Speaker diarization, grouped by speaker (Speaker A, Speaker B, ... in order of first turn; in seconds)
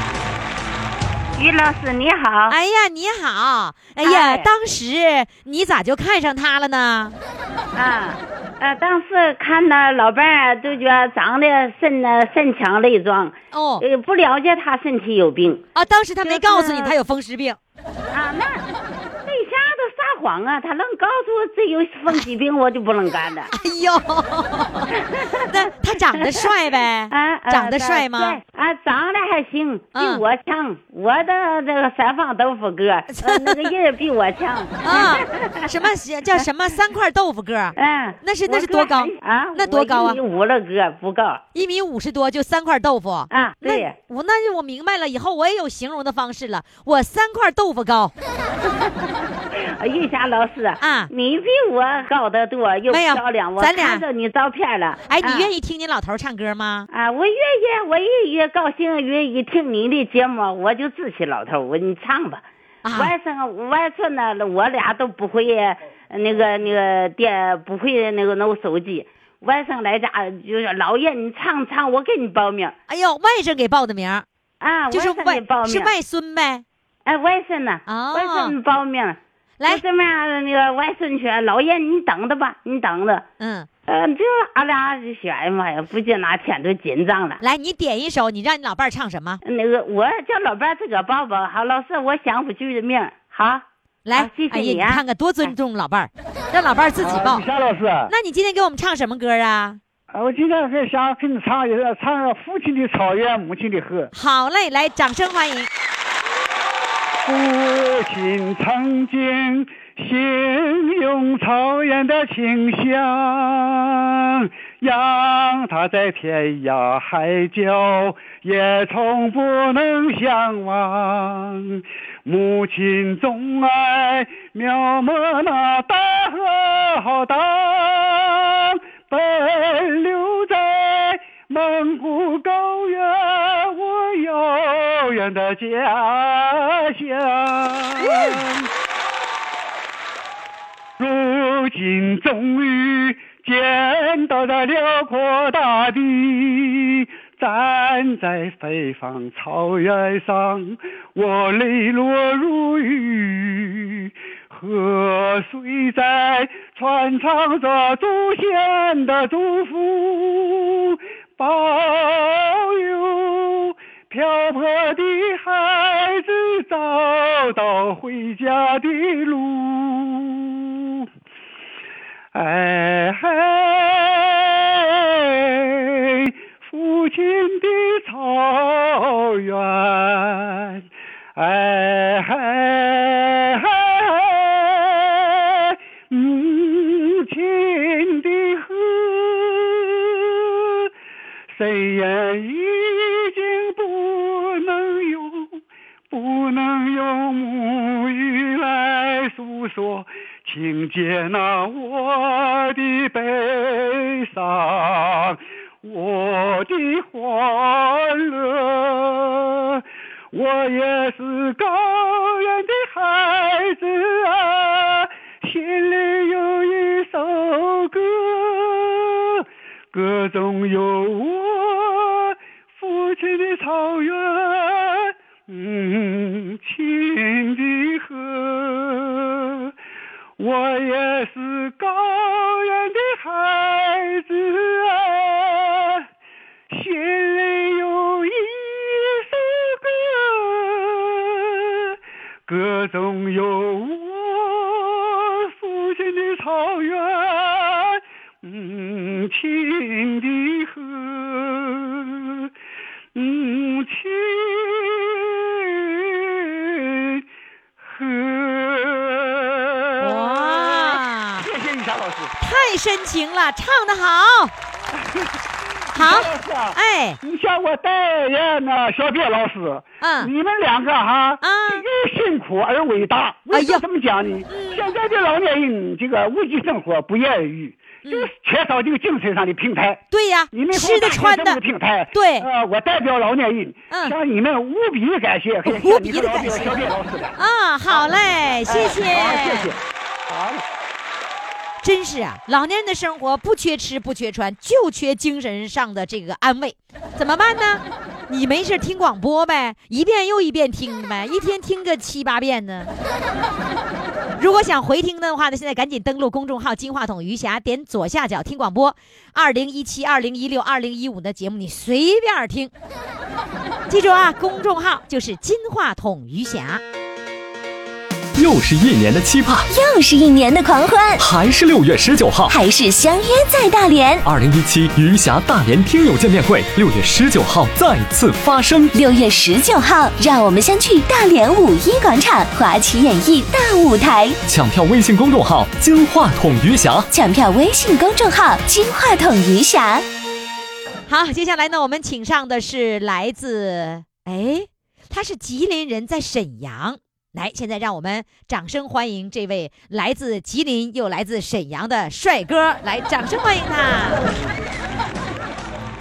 Speaker A: 1.3-2.5, 4.0-4.5, 7.7-15.6, 16.2-16.9, 18.1-18.6, 19.2-23.5, 24.9-26.5, 27.1-35.7, 37.8-41.4, 43.3-43.9, 48.6-55.5, 56.9-72.7, 74.6-75.9, 77.0-83.2, 83.9-87.4, 89.4-95.5
Speaker B: 2.5-7.2, 13.5-13.8, 15.7-17.6, 23.5-24.9, 25.4-28.4, 29.9-30.2, 33.1-33.7, 34.8-40.2, 41.5-48.1, 50.8-51.1, 52.9-54.0, 55.1-56.9, 62.8-63.1, 72.9-74.2, 74.9-76.6, 77.9-78.5, 83.4-83.7, 87.4-89.4, 94.0-97.4, 98.1-99.8, 104.1-105.7, 138.0-138.4, 260.0-261.5, 262.4-264.5, 265.9-267.2, 270.0-270.3, 271.4-271.8, 273.5-273.8, 274.5-274.8, 278.0-278.3, 280.1-281.6, 282.1-282.5, 283.9-284.1, 285.6-286.8, 287.4-289.7, 291.8-302.9, 304.4-312.7, 313.9-316.8, 341.1-354.2
Speaker C: 97.0-98.1, 100.1-104.1, 107.2-138.7, 141.0-171.1, 172.3-180.8, 181.3-190.9, 191.5-195.6, 196.1-229.7, 230.4-236.0, 236.7-252.5, 253.1-257.2, 257.8-262.3, 264.9-265.3, 265.9-287.4, 287.9-290.6
Speaker D: 318.4-319.6, 321.2-322.5, 324.2-328.9, 334.5-337.1
Speaker E: 319.7-321.2, 322.5-324.2, 328.9-334.4, 337.1-340.0